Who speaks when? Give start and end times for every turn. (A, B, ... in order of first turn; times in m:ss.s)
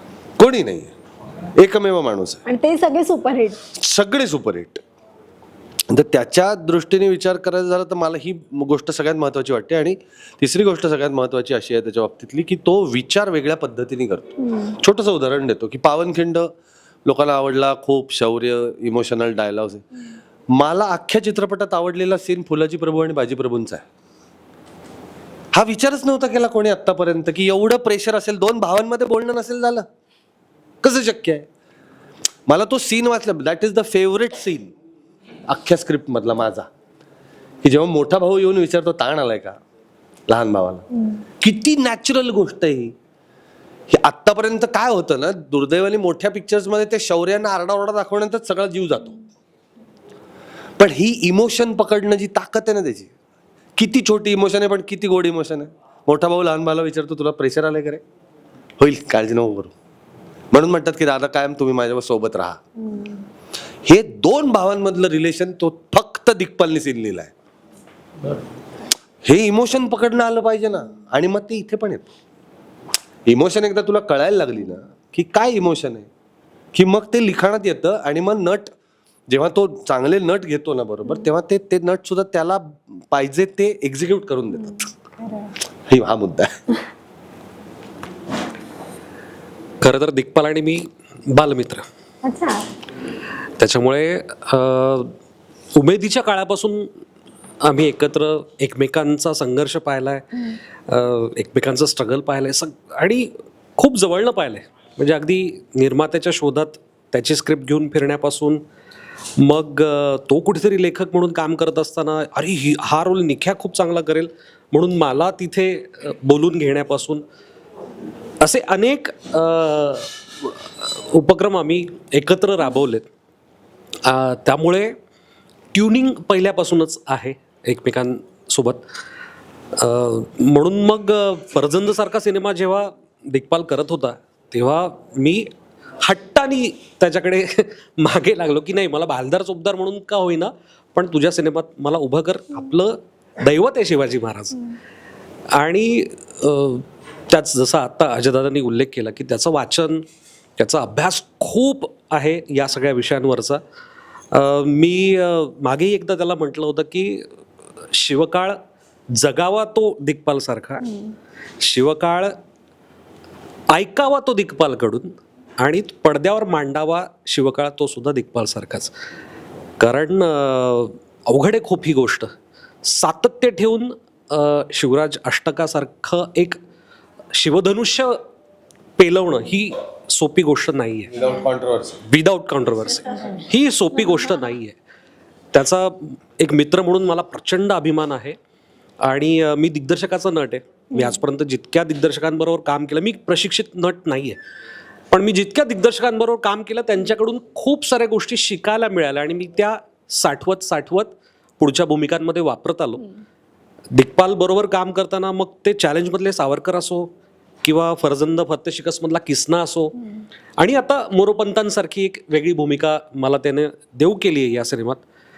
0:00.4-0:00.9 A
0:01.6-0:02.4 A
0:02.4-0:03.6 B
0:03.8-0:04.8 A
0:05.9-0:16.5 A
0:14.4-0:14.7 B
0:17.0-0:19.8 A
0:20.5-0:23.8 A
0:25.5-0:29.9 A
0:30.8-0:31.5 A
0:32.5-0:34.7 A
0:35.5-0:36.7 A
0:37.6-0:39.6 A
0:40.3-0:40.8 A
0:41.4-0:42.9 A
0:43.9-0:49.2 A
0:50.8-0:53.1 A
0:53.8-0:58.0 A
0:58.8-0:59.7 A
1:00.5-1:02.6 A
1:03.8-1:07.3 A
1:09.2-1:12.1 A
1:13.2-1:16.1 A
1:16.7-1:18.7 A
1:19.3-1:24.8 A
1:24.6-1:25.5 B
1:25.9-1:26.5 A
1:29.8-1:31.8 C
1:32.2-1:32.6 B
1:33.6-1:35.1 C
1:35.8-1:36.9 C
1:37.6-1:40.2 C
1:40.9-1:48.6 C
1:49.4-1:57.2 C
1:58.4-2:03.1 C
2:04.0-2:05.0 C
2:05.7-2:08.8 C
2:09.8-2:15.5 C
2:16.0-2:24.6 C
2:25.5-2:30.0 C
2:30.6-2:33.6 C
2:34.3-2:37.3 C
2:37.9-2:38.6 C
2:39.1-2:40.9 C
2:41.6-2:42.4 C
2:43.7-2:48.9 C
2:49.8-2:52.3 C
2:52.8-2:56.6 C
2:57.3-2:58.2 C
2:59.0-3:01.1 C
3:01.1-3:02.0 A
3:02.1-3:04.8 C
3:05.5-3:08.4 C
3:09.0-3:14.4 C
3:15.1-3:23.1 C
3:23.9-3:27.1 C
3:27.6-3:30.0 C
3:30.6-3:35.0 C